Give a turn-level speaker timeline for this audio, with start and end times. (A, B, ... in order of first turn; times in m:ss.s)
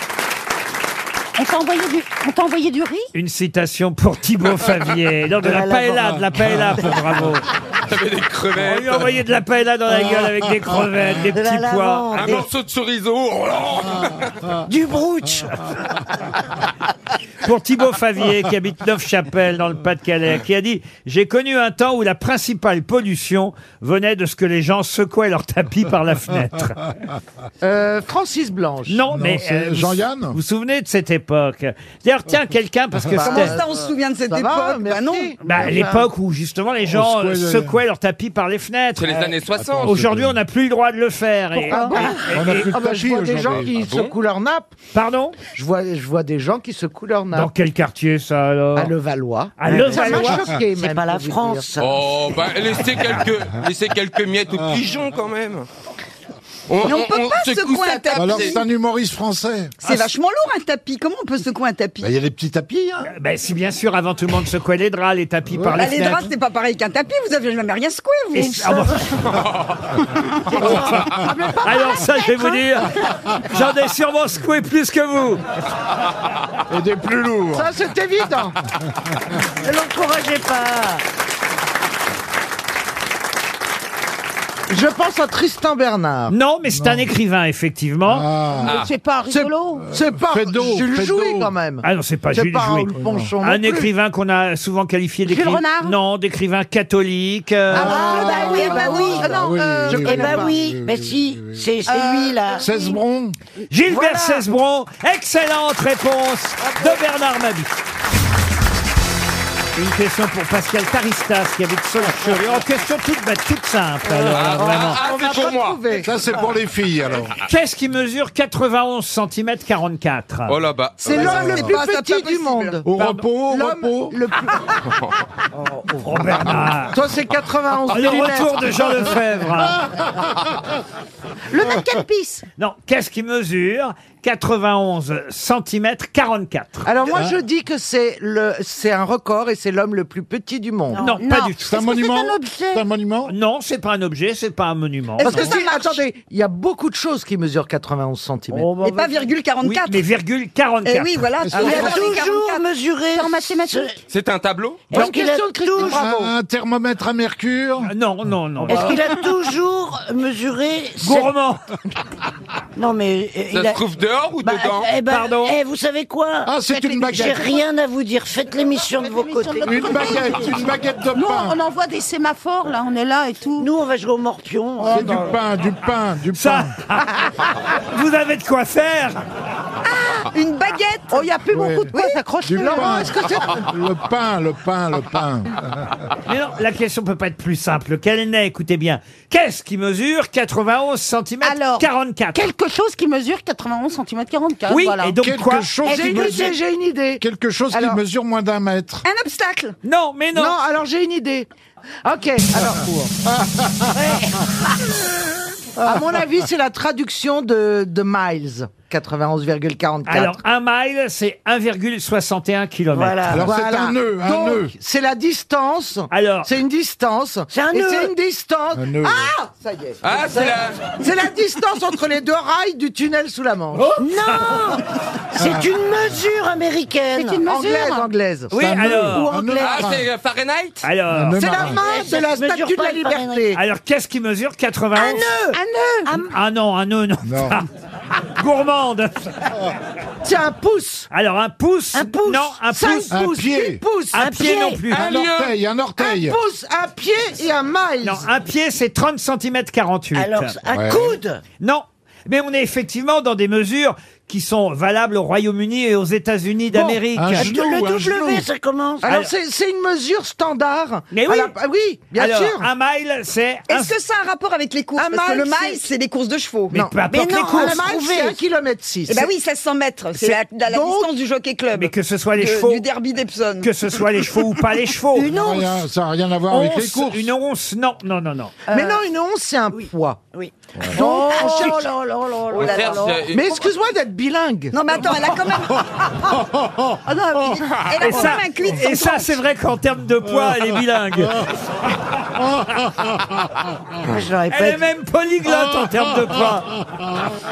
0:01.4-0:03.1 A
0:03.1-0:07.4 B
0:05.4-0:06.0 C
0:06.4-0:06.8 D
0:07.9-0:09.1 E
0:08.6-0:12.4 B
0:11.3-0:12.4 C
0:12.1-0:14.3 E
0:14.7-0:15.5 C
0:17.4-0:26.8 B
0:27.6-0:29.0 F
0:28.9-0:33.6 B
0:29.1-0:30.4 D
0:33.1-0:35.7 F
0:33.2-0:35.4 G
0:35.4-0:36.0 A
0:35.4-0:39.1 B
0:36.9-0:37.8 D
0:39.0-0:40.0 E
0:39.5-0:40.4 D
0:39.8-0:42.7 B
0:41.6-0:42.1 A
0:41.7-0:44.7 F
0:42.2-0:43.7 D
0:43.6-0:44.1 E
0:44.9-0:45.4 B
0:45.4-0:47.5 F
0:47.3-0:48.9 B
0:48.8-0:51.7 F
0:49.6-0:50.5 B
0:49.6-0:52.0 C
0:51.8-0:55.7 E
0:56.7-0:58.6 E
0:56.8-0:58.6 G
0:58.1-0:59.8 D
0:59.8-1:02.1 G
1:02.0-1:03.1 D
1:03.1-1:06.3 B
1:05.5-1:05.8 D
1:05.7-1:08.6 G
1:08.3-1:09.0 C
1:08.4-1:09.1 B
1:10.5-1:11.6 C
1:10.6-1:11.1 B
1:11.2-1:12.6 A
1:11.6-1:15.4 B
1:16.7-1:17.7 D
1:17.5-1:18.6 F
1:19.6-1:21.0 C
1:24.7-1:26.3 F
1:26.3-1:28.3 B
1:26.7-1:27.1 D
1:28.0-1:28.8 D
1:28.6-1:29.9 A
1:28.6-1:28.9 E
1:29.3-1:33.9 F
1:29.9-1:31.5 D
1:31.8-1:37.9 B
1:32.9-1:33.3 D
1:35.2-1:36.0 A
1:37.7-1:40.6 F
1:37.8-1:39.4 C
1:37.8-1:40.4 A
1:38.4-1:39.3 G
1:38.9-1:41.8 D
1:40.0-1:42.7 C
1:41.8-1:43.0 A
1:42.6-1:43.4 D
1:43.7-1:47.8 B
1:43.9-1:44.2 C
1:49.8-1:55.0 B
1:54.4-1:55.8 E
1:54.5-1:56.1 F
1:56.0-1:57.3 D
1:57.4-2:00.5 B
2:00.5-2:01.1 E
2:01.0-2:02.9 F
2:01.0-2:02.8 G
2:01.2-2:01.8 D
2:02.8-2:04.2 D
2:03.4-2:04.9 F
2:05.6-2:08.8 F
2:06.0-2:07.0 B
2:07.9-2:09.8 B
2:11.5-2:12.4 A
2:12.6-2:16.9 B
2:16.8-2:21.0 F
2:17.1-2:17.4 D
2:20.9-2:22.8 A
2:21.0-2:22.1 B
2:21.6-2:23.3 D
2:23.3-2:25.5 B
2:25.2-2:28.8 F
2:25.2-2:25.9 G
2:28.7-2:30.0 G
2:29.6-2:31.2 B
2:30.8-2:32.6 G
2:31.5-2:31.9 D
2:31.5-2:33.9 C
2:31.6-2:31.8 F
2:33.1-2:33.9 A
2:34.1-2:34.8 E
2:34.9-2:36.1 C
2:34.9-2:36.3 F
2:35.5-2:35.9 A
2:35.8-2:37.9 D
2:37.8-2:39.1 B
2:38.7-2:41.3 C
2:41.0-2:41.6 B
2:42.8-2:43.8 C
2:43.5-2:44.9 E
2:44.4-2:50.2 C
2:45.1-2:45.6 B
2:46.4-2:47.6 D
2:46.6-2:47.6 A
2:48.9-2:53.7 A
2:49.6-2:51.6 D
2:53.6-2:55.0 C
2:54.8-2:56.7 D
2:56.3-2:59.2 B
2:59.8-3:01.3 G
3:01.1-3:03.4 A
3:01.5-3:05.9 D
3:01.9-3:02.2 G
3:02.6-3:03.6 F
3:06.3-3:12.4 B
3:11.4-3:15.2 A
3:14.7-3:15.7 B
3:15.2-3:16.6 D
3:15.8-3:18.0 F
3:15.8-3:16.6 C
3:17.2-3:19.0 D
3:19.0-3:19.8 G
3:19.8-3:20.6 B
3:20.3-3:21.5 F
3:22.0-3:23.1 F
3:23.9-3:24.6 C
3:25.8-3:30.4 F
3:30.0-3:33.4 B
3:32.9-3:33.5 C
3:33.3-3:34.7 D
3:33.4-3:43.9 F
3:36.1-3:36.5 B
3:37.5-3:38.1 C
3:38.7-3:39.3 D
3:40.0-3:40.8 E
3:43.8-3:44.5 B
3:44.0-3:47.4 C
3:45.4-3:45.7 D
3:47.1-3:48.1 A
3:47.4-3:48.5 F
3:48.5-3:49.4 B
3:48.5-3:50.0 D
3:49.2-3:49.6 C
3:49.6-3:50.8 E
3:50.8-3:51.6 B
3:51.1-3:51.8 D
3:51.3-3:53.6 F
3:51.7-3:53.5 C
3:53.5-3:55.3 B
3:54.9-3:56.3 C
3:55.5-3:56.2 A
3:56.3-3:57.6 B
3:57.2-3:57.6 D
3:58.3-3:59.3 B
4:00.2-4:01.1 F
4:01.1-4:03.2 B
4:01.9-4:02.6 C
4:02.7-4:04.3 F
4:03.1-4:03.8 D
4:04.1-4:05.0 B
4:04.2-4:04.8 C
4:04.9-4:05.6 E
4:04.9-4:06.4 D
4:06.0-4:08.3 F
4:08.0-4:10.6 B
4:10.1-4:11.4 C
4:10.6-4:11.2 D
4:11.6-4:17.5 B
4:16.7-4:17.0 F
4:17.1-4:18.5 D
4:17.4-4:19.2 C
4:19.0-4:22.7 F
4:21.1-4:21.5 B
4:22.1-4:23.9 B
4:23.7-4:26.8 G
4:25.0-4:25.9 F
4:26.7-4:27.8 B
4:26.7-4:29.3 F
4:27.1-4:28.4 C
4:29.1-4:33.7 G
4:30.1-4:31.1 F
4:31.7-4:32.8 B
4:33.6-4:35.3 B
4:35.1-4:35.8 C
4:35.3-4:37.3 D
4:36.5-4:38.6 B
4:38.7-4:40.2 F
4:39.7-4:43.2 C
4:40.9-4:41.9 F
4:42.5-4:43.1 A
4:42.5-4:43.6 E
4:42.6-4:43.0 G
4:43.3-4:45.2 F
4:44.7-4:46.2 G
4:47.0-4:49.4 G
4:48.0-4:52.1 B
4:54.1-4:54.8 C
4:54.5-4:56.7 B